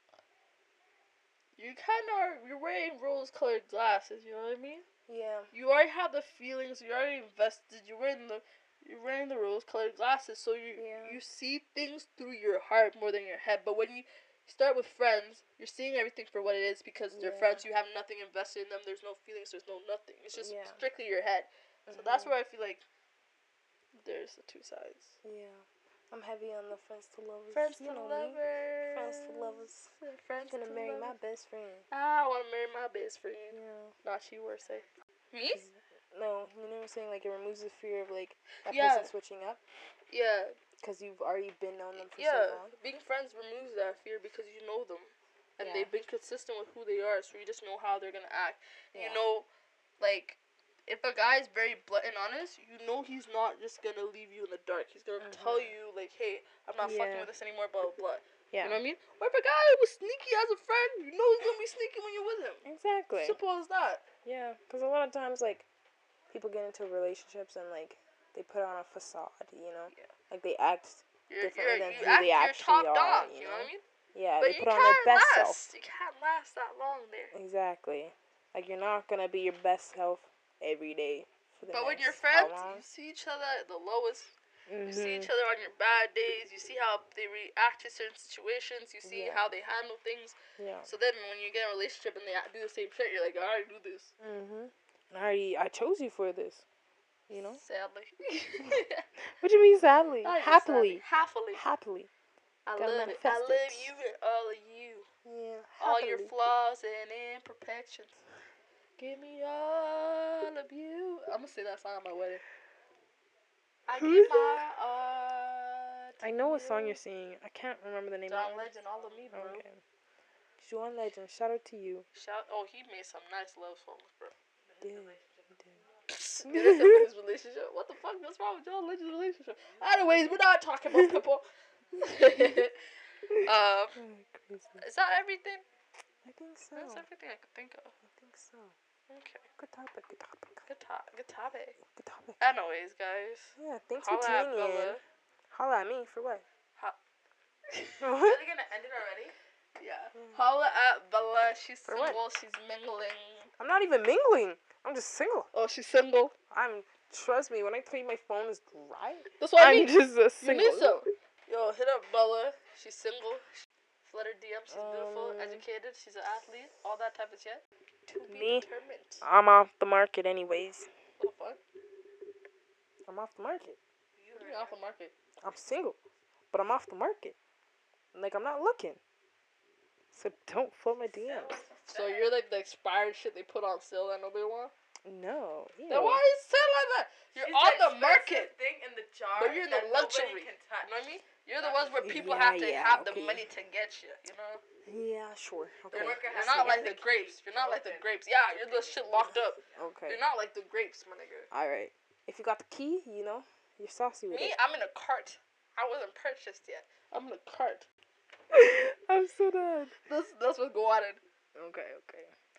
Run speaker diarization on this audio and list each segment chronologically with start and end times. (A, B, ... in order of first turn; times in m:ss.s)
0:01.6-0:04.9 A
0:05.1-0:05.5 B
0:05.5-0:22.8 A
0:10.8-0:11.2 B
0:17.1-0:17.6 B
0:20.4-0:20.8 B
0:21.9-0:22.4 B
0:24.0-0:25.2 A
0:25.2-0:29.9 B
0:27.5-0:31.1 A
0:30.5-0:31.8 B
0:31.9-0:35.7 A
0:33.5-0:34.0 B
0:35.5-0:39.6 B
0:38.6-0:39.1 A
0:40.1-0:40.6 A
0:40.8-0:42.7 B
0:42.0-0:49.5 A
0:45.6-0:45.9 B
0:48.9-0:49.2 B
0:50.0-1:02.6 A
0:55.2-0:55.8 B
0:56.8-0:57.3 B
0:58.5-0:58.8 B
1:02.6-1:03.4 B
1:03.2-1:04.1 A
1:04.2-1:05.7 B
1:06.3-1:15.7 B
1:11.3-1:13.8 A
1:14.4-1:17.3 A
1:17.3-1:22.8 B
1:21.7-1:34.1 A
1:24.7-1:25.3 B
1:29.0-1:29.5 B
1:30.6-1:30.9 B
1:34.2-1:36.6 B
1:37.3-1:37.6 B
1:37.6-1:39.1 A
1:39.4-1:41.0 B
1:40.2-1:41.6 A
1:41.5-1:42.1 B
1:42.6-1:45.1 A
1:42.8-1:43.9 B
1:45.2-1:46.3 B
1:45.8-1:48.2 A
1:49.0-1:52.4 A
1:53.9-1:57.0 A
1:53.9-1:54.6 B
1:56.2-1:58.7 B
1:58.3-1:59.6 A
1:59.3-1:59.8 B
2:00.6-2:02.1 B
2:02.1-2:04.3 A
2:04.7-2:05.5 C
2:04.8-2:05.8 B
2:06.1-2:12.8 A
2:06.4-2:07.1 B
2:10.9-2:11.2 B
2:13.3-2:14.8 B
2:13.4-2:14.0 A
2:14.8-2:15.6 A
2:16.2-2:17.0 B
2:16.8-2:18.0 A
2:18.1-2:18.8 B
2:19.1-2:19.5 A
2:19.6-2:20.6 B
2:20.7-2:21.8 A
2:21.8-2:22.4 B
2:22.4-2:25.0 A
2:23.6-2:26.4 B
2:27.7-2:28.1 A
2:28.0-2:28.4 B
2:28.2-2:29.3 C
2:29.8-2:33.5 A
2:31.9-2:32.2 B
2:33.6-2:35.5 B
2:35.5-2:36.3 A
2:36.5-2:41.0 B
2:39.4-2:43.4 A
2:44.0-2:49.2 A
2:44.7-2:45.6 B
2:48.3-2:48.7 B
2:49.2-2:50.9 B
2:51.2-2:51.6 A
2:53.1-2:53.8 B
2:54.2-2:54.8 C
2:54.4-2:55.1 A
2:55.4-2:56.0 B
2:56.5-2:57.4 B
2:58.1-2:59.0 B
3:00.1-3:01.7 B
3:01.2-3:02.4 C
3:01.9-3:04.7 A
3:05.0-3:06.2 B
3:05.9-3:08.5 A
3:07.3-3:11.1 C
3:09.4-3:14.6 A
3:11.6-3:12.0 C
3:12.0-3:13.5 B
3:14.9-3:17.0 B
3:15.9-3:21.5 A
3:15.9-3:19.3 C
3:19.7-3:20.2 B
3:21.5-3:24.6 B
3:24.3-3:27.9 A
3:28.5-3:29.9 B
3:30.1-3:31.2 A
3:31.6-3:32.3 B